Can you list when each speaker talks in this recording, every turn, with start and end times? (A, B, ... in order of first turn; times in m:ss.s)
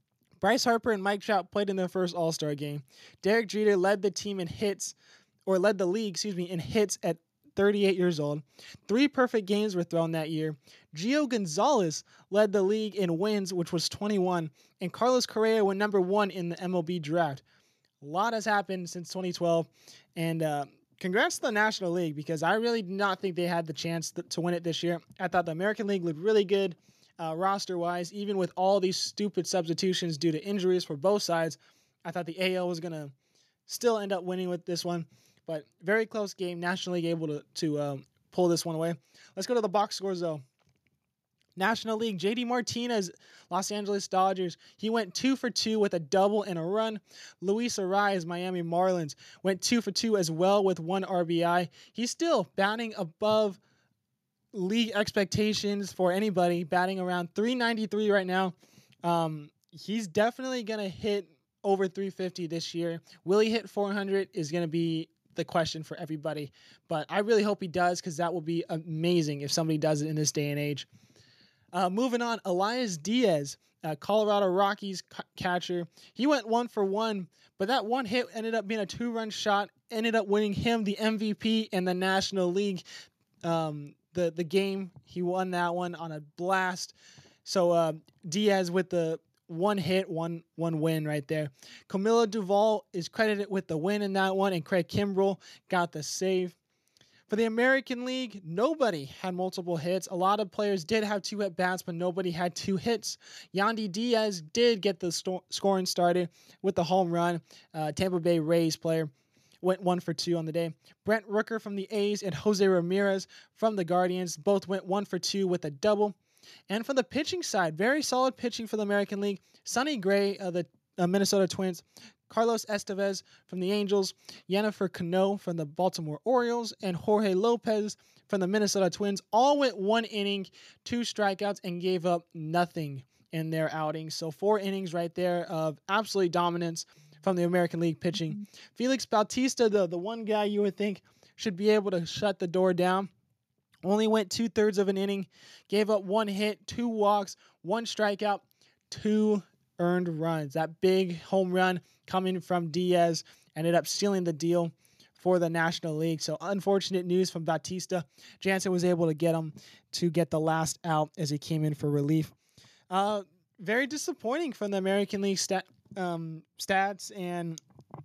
0:00.4-0:17.4 A
0:18.0-0:33.1 A
0:33.7-0:40.4 A
0:41.6-0:53.6 A
0:54.5-1:10.9 A
1:11.7-1:22.8 A
1:23.4-1:36.6 A
1:37.3-1:49.1 A
1:49.6-1:56.2 A
1:56.7-2:23.1 A
2:23.8-2:42.4 A
2:42.9-2:47.6 A